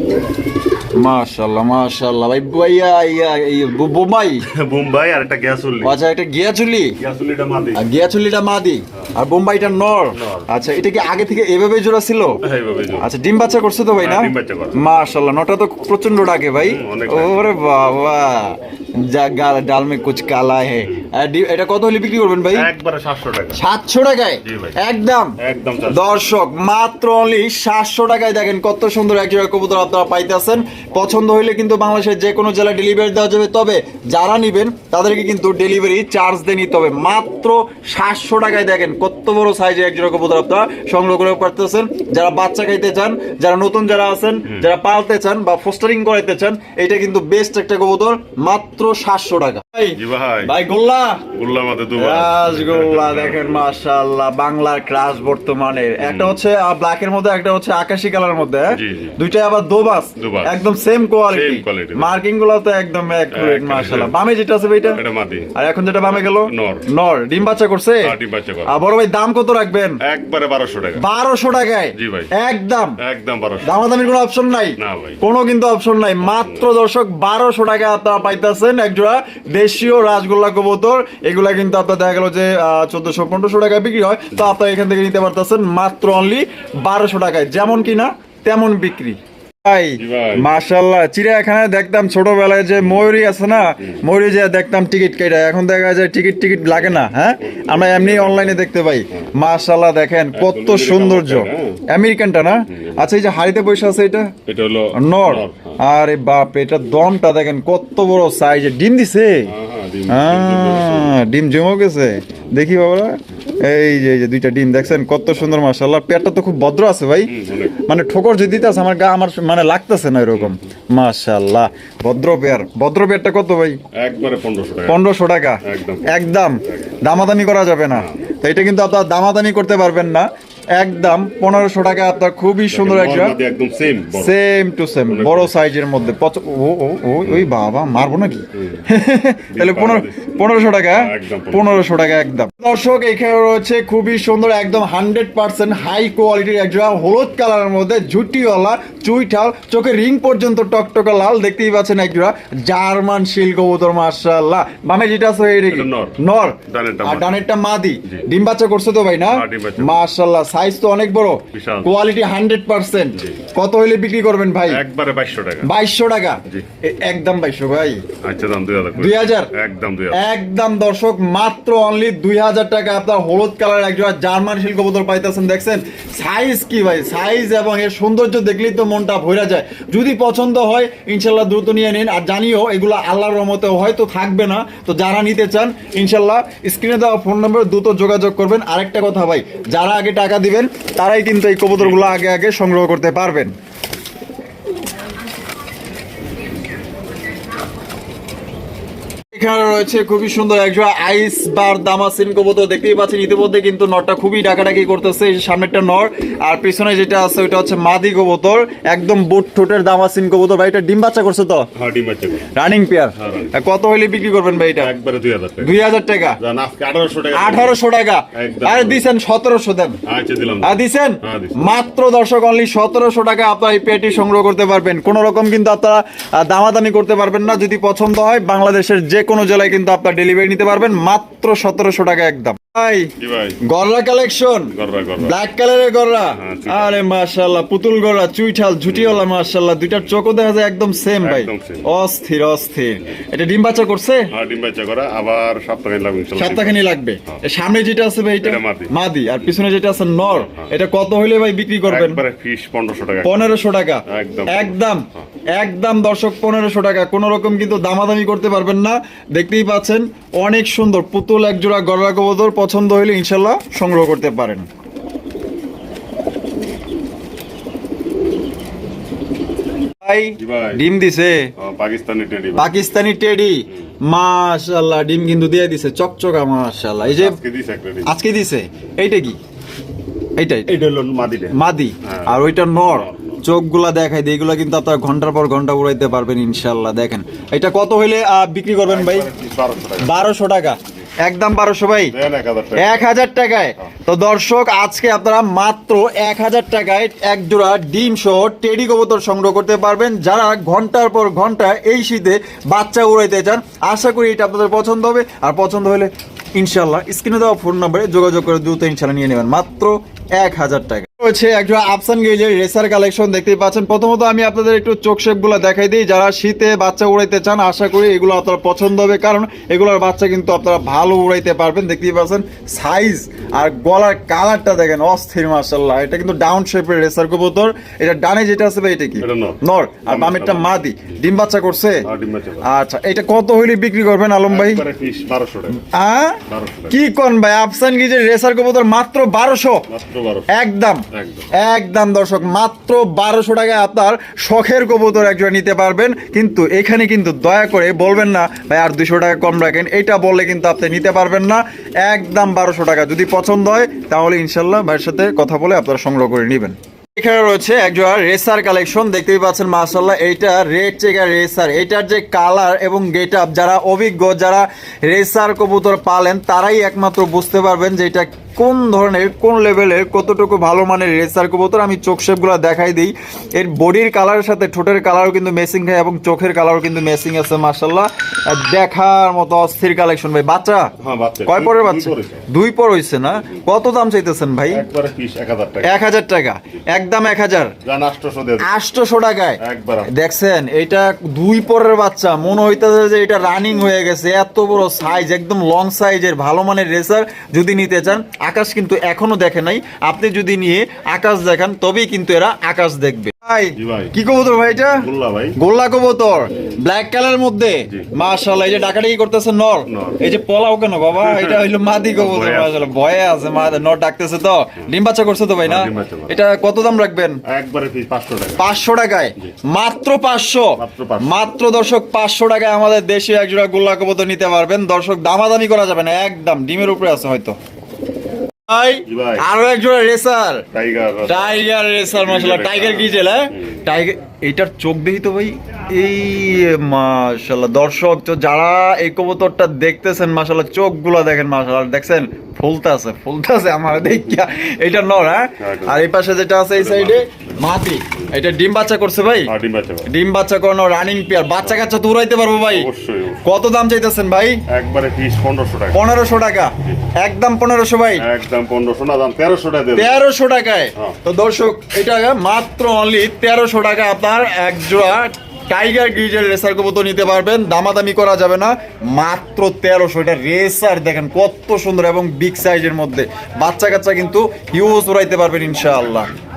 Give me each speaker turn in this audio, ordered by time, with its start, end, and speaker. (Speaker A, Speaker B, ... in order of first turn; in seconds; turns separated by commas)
Speaker A: 1.0-4.5, Speaker B: 4.5-6.0, Speaker A: 5.8-7.0, Speaker B: 7.0-7.8, Speaker A: 7.8-12.4, Speaker B: 10.1-10.5, Speaker B: 12.4-13.1, Speaker A: 13.0-22.7, Speaker B: 14.0-14.8, Speaker B: 16.6-17.5, Speaker B: 22.5-23.6, Speaker A: 23.5-51.3, Speaker B: 24.4-24.8, Speaker B: 25.4-26.2, Speaker B: 49.9-50.5, Speaker B: 51.3-53.6, Speaker A: 52.0-65.0, Speaker B: 56.0-56.4, Speaker B: 58.7-59.1, Speaker B: 60.2-60.5, Speaker B: 61.3-62.2, Speaker B: 63.3-64.2, Speaker B: 64.9-65.5, Speaker A: 65.5-68.1, Speaker B: 66.1-66.9, Speaker B: 68.0-68.8, Speaker A: 68.7-70.0, Speaker B: 70.0-71.0, Speaker A: 71.0-73.0, Speaker B: 72.0-72.3, Speaker B: 73.0-73.8, Speaker A: 73.6-104.4, Speaker B: 74.8-75.2, Speaker B: 76.2-76.7, Speaker B: 90.0-90.6, Speaker B: 96.8-99.2, Speaker B: 100.3-101.8, Speaker B: 102.7-103.1, Speaker B: 104.5-105.8, Speaker A: 105.0-109.5, Speaker B: 109.5-111.2, Speaker A: 110.1-123.8, Speaker B: 117.3-117.8, Speaker B: 123.9-125.0, Speaker A: 124.9-133.4, Speaker B: 125.6-127.0, Speaker B: 132.7-134.3, Speaker A: 134.2-164.8, Speaker B: 135.1-135.6, Speaker B: 139.5-141.8, Speaker B: 155.7-157.4, Speaker B: 159.3-159.9, Speaker B: 161.5-161.9, Speaker B: 164.7-165.7, Speaker A: 165.6-168.1, Speaker B: 168.2-170.3, Speaker A: 169.0-169.5, Speaker A: 170.1-193.5, Speaker B: 191.8-192.2, Speaker A: 199.3-211.7, Speaker B: 211.8-212.5, Speaker A: 212.5-214.9, Speaker B: 213.2-213.6, Speaker B: 214.8-215.8, Speaker A: 215.6-216.4, Speaker B: 216.4-217.8, Speaker A: 217.3-220.0, Speaker B: 218.3-219.1, Speaker B: 220.1-221.8, Speaker A: 220.6-233.1, Speaker B: 233.2-233.6, Speaker A: 233.7-244.3, Speaker B: 234.7-235.3, Speaker B: 236.3-237.0, Speaker B: 238.9-239.2, Speaker B: 241.2-241.9, Speaker B: 244.3-247.4, Speaker A: 246.4-252.2, Speaker B: 248.4-248.9, Speaker B: 251.9-254.8, Speaker A: 253.2-255.1, Speaker A: 255.6-264.7, Speaker A: 270.0-271.5, Speaker B: 270.4-270.8, Speaker B: 271.6-272.8, Speaker A: 272.6-277.4, Speaker B: 277.0-278.1, Speaker A: 278.1-279.4, Speaker A: 280.4-280.7, Speaker B: 280.7-283.4, Speaker A: 281.5-289.3, Speaker B: 288.9-290.3, Speaker A: 290.0-292.1, Speaker B: 292.1-293.1, Speaker A: 292.8-332.1, Speaker B: 329.2-330.8, Speaker B: 332.1-332.7, Speaker A: 332.6-334.8, Speaker B: 334.5-335.8, Speaker A: 335.8-339.9, Speaker B: 336.5-336.9, Speaker B: 339.9-340.5, Speaker A: 340.5-341.1, Speaker B: 341.1-341.5, Speaker A: 341.6-380.9, Speaker B: 381.0-382.5, Speaker A: 381.5-384.9, Speaker B: 384.7-386.1, Speaker A: 385.8-387.7, Speaker B: 387.8-388.7, Speaker A: 388.6-417.4, Speaker B: 389.6-390.1, Speaker B: 403.8-404.1, Speaker B: 404.9-405.6, Speaker B: 409.9-410.2, Speaker B: 411.1-412.9, Speaker B: 415.6-416.4, Speaker B: 417.4-418.8, Speaker A: 418.6-427.6, Speaker B: 420.8-421.4, Speaker A: 428.7-430.7, Speaker B: 429.1-429.5, Speaker B: 430.7-433.5, Speaker A: 431.2-449.5, Speaker B: 445.6-446.0, Speaker B: 446.8-447.5, Speaker B: 449.5-450.1, Speaker A: 450.1-452.9, Speaker B: 452.7-453.4, Speaker A: 453.4-454.6, Speaker B: 454.7-456.1, Speaker A: 455.9-458.2, Speaker B: 458.2-460.2, Speaker A: 460.0-476.3